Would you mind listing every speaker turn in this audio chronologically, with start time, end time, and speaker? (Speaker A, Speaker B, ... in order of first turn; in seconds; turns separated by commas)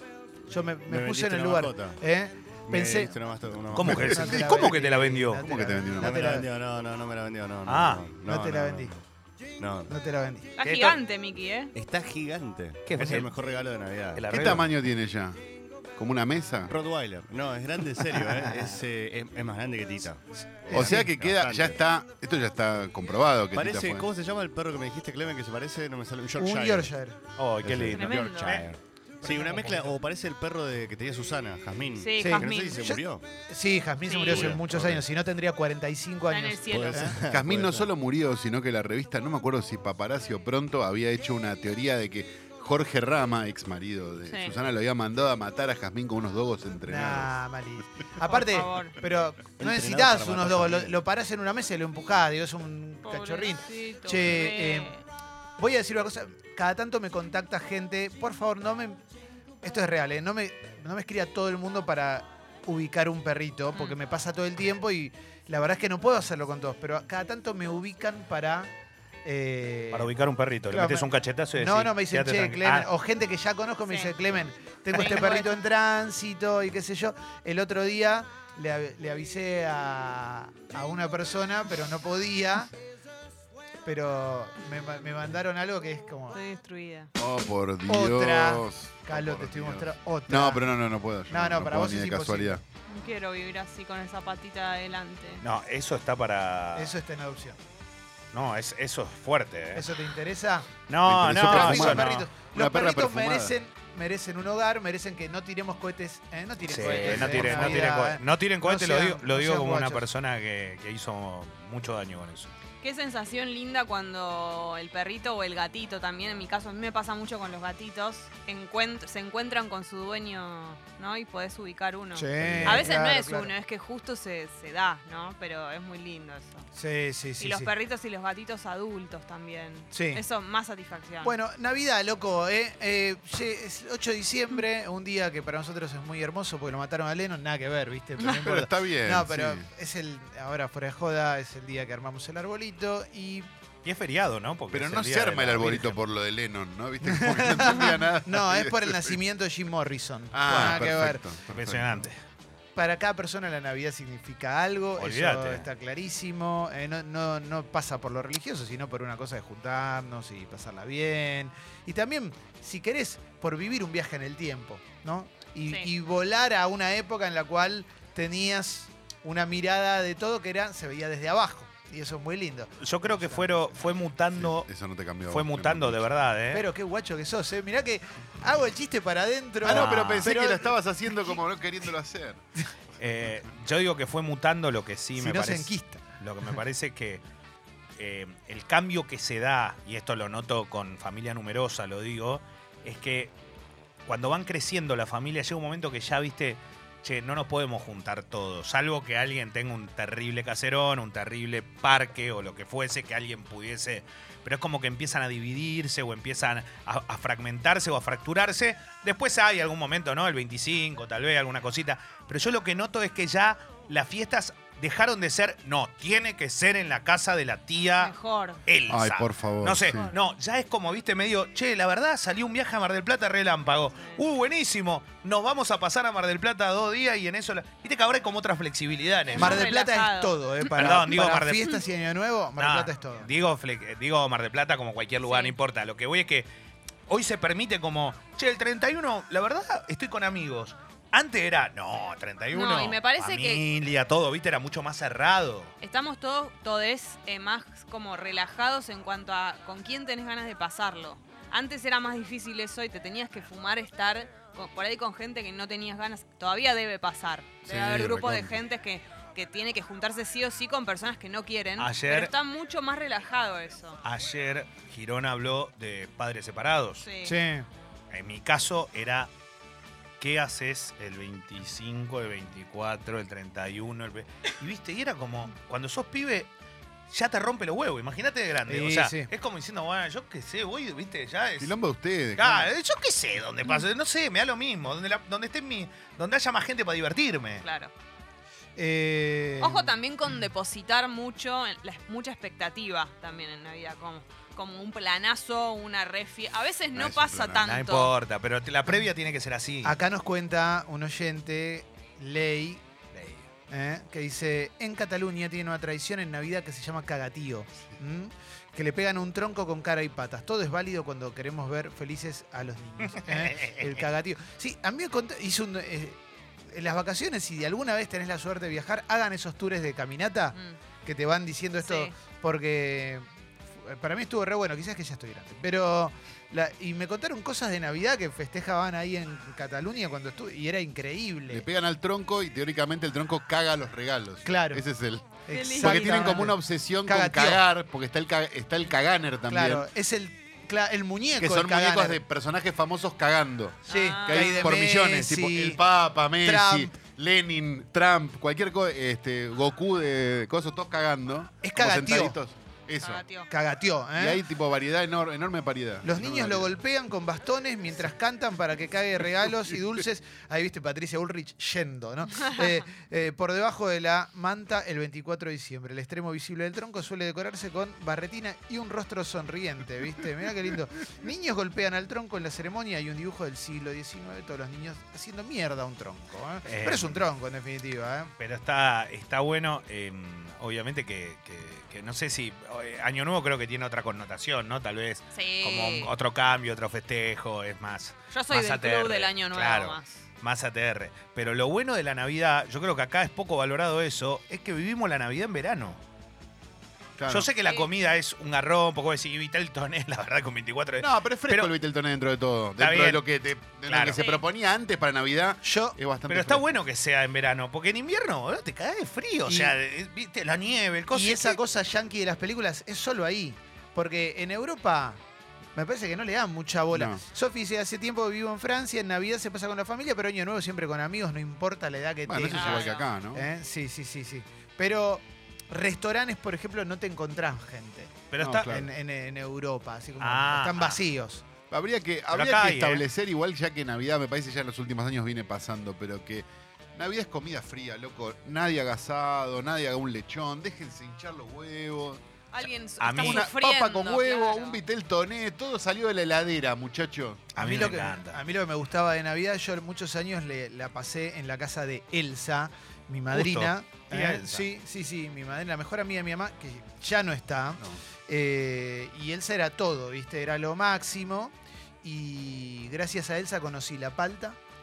Speaker A: 0.5-3.1, Speaker B: 0.9-2.0, Speaker B: 2.7-4.4, Speaker C: 3.7-5.5, Speaker A: 3.8-6.5, Speaker D: 3.9-4.4, Speaker B: 5.5-9.0, Speaker D: 5.7-6.2, Speaker C: 7.7-8.0, Speaker A: 8.2-8.9, Speaker B: 9.6-9.9, Speaker A: 9.9-10.5, Speaker E: 10.6-11.7, Speaker C: 10.6-11.0, Speaker B: 11.7-14.4, Speaker C: 12.9-13.3, Speaker C: 14.1-14.7, Speaker D: 14.3-15.4, Speaker D: 15.9-16.7, Speaker B: 16.7-21.8, Speaker A: 20.7-21.1, Speaker D: 20.7-24.1, Speaker B: 23.5-26.9, Speaker A: 26.4-27.2, Speaker C: 27.4-28.7, Speaker B: 27.6-33.2, Speaker E: 27.9-28.6, Speaker A: 29.2-29.9, Speaker E: 32.0-32.8, Speaker A: 32.2-37.1, Speaker E: 34.0-34.5, Speaker B: 34.3-35.0, Speaker E: 36.3-37.2, Speaker B: 36.7-37.9, Speaker D: 37.3-47.3, Speaker E: 44.3-44.5, Speaker A: 46.9-54.9, Speaker E: 48.2-49.0, Speaker B: 49.6-51.0, Speaker E: 53.0-55.0, Speaker A: 55.6-59.0, Speaker A: 59.6-68.7, Speaker A: 69.2-70.1, Speaker C: 69.9-72.9, Speaker A: 70.7-82.7, Speaker E: 73.9-74.1, Speaker E: 74.9-75.5, Speaker A: 83.8-86.4, Speaker E: 86.3-87.1, Speaker D: 87.2-92.6, Speaker A: 87.9-90.6, Speaker A: 91.3-92.6, Speaker E: 92.9-95.4, Speaker C: 95.4-96.9, Speaker A: 96.7-97.6, Speaker C: 98.3-99.9, Speaker A: 99.7-100.7, Speaker C: 100.9-102.3, Speaker D: 101.0-103.6, Speaker A: 101.4-110.0, Speaker C: 106.7-112.5, Speaker D: 107.0-107.7, Speaker E: 112.8-126.7, Speaker A: 122.1-123.5, Speaker D: 122.4-122.9, Speaker A: 126.7-127.7, Speaker E: 127.4-131.3, Speaker A: 129.9-130.2, Speaker A: 131.2-143.5, Speaker D: 138.2-139.7, Speaker C: 143.8-146.0, Speaker D: 144.7-149.2, Speaker A: 147.0-151.2, Speaker D: 150.3-152.0, Speaker C: 150.5-150.9, Speaker C: 151.5-152.2, Speaker A: 152.7-173.7, Speaker C: 155.0-155.7, Speaker C: 172.8-174.7, Speaker D: 174.3-176.1, Speaker C: 175.3-176.7, Speaker A: 176.5-180.7, Speaker D: 179.6-182.4, Speaker C: 179.6-180.3, Speaker C: 183.0-187.2, Speaker A: 185.2-186.0, Speaker C: 188.0-193.3, Speaker C: 194.1-218.1, Speaker E: 218.0-218.6, Speaker C: 218.7-229.6, Speaker D: 218.9-220.0, Speaker E: 229.3-230.3, Speaker A: 229.3-233.3, Speaker C: 230.7-231.8, Speaker C: 232.6-236.5, Speaker E: 235.2-235.5, Speaker C: 237.1-245.7, Speaker E: 242.5-243.6, Speaker E: 245.8-264.0, Speaker D: 257.6-258.6, Speaker C: 261.8-262.3, Speaker C: 264.0-267.0, Speaker E: 267.0-267.4, Speaker A: 267.2-267.7, Speaker C: 268.1-269.3, Speaker C: 270.2-276.5, Speaker C: 277.1-281.7, Speaker A: 278.7-279.3, Speaker D: 281.6-282.7, Speaker C: 282.4-287.6, Speaker E: 287.6-287.9, Speaker A: 288.8-289.9, Speaker E: 289.6-298.1, Speaker D: 296.9-297.7, Speaker C: 297.6-300.0, Speaker A: 299.8-302.8, Speaker C: 303.1-303.4, Speaker A: 303.7-323.2, Speaker C: 313.1-314.0, Speaker E: 321.8-322.1, Speaker A: 323.8-331.6, Speaker D: 331.5-339.9, Speaker A: 334.4-334.8, Speaker A: 335.5-337.6, Speaker E: 335.5-336.4, Speaker A: 339.5-342.2, Speaker D: 341.4-353.2, Speaker E: 343.9-344.7, Speaker A: 343.9-345.8, Speaker A: 346.4-346.9, Speaker A: 351.6-352.4, Speaker E: 353.0-353.5, Speaker A: 353.5-354.4, Speaker D: 354.1-356.8, Speaker A: 356.0-378.3, Speaker C: 376.6-377.2, Speaker C: 378.4-396.0, Speaker E: 385.3-386.1, Speaker E: 388.3-390.2, Speaker D: 397.2-397.5, Speaker C: 397.3-401.7, Speaker D: 401.0-406.7, Speaker C: 402.8-403.2, Speaker C: 403.9-404.2, Speaker E: 404.1-404.4, Speaker A: 405.6-405.9, Speaker C: 406.3-411.6, Speaker A: 409.4-409.7, Speaker A: 411.1-415.2, Speaker A: 415.7-431.4, Speaker D: 416.9-417.2, Speaker D: 422.2-423.5, Speaker E: 422.5-423.1, Speaker C: 428.3-428.8, Speaker D: 428.4-428.9, Speaker C: 430.2-431.0, Speaker D: 431.7-442.2, Speaker C: 432.3-433.0, Speaker E: 442.5-444.8, Speaker C: 443.0-443.5, Speaker D: 443.1-447.5, Speaker C: 447.5-448.4, Speaker A: 447.6-464.6, Speaker C: 453.3-454.7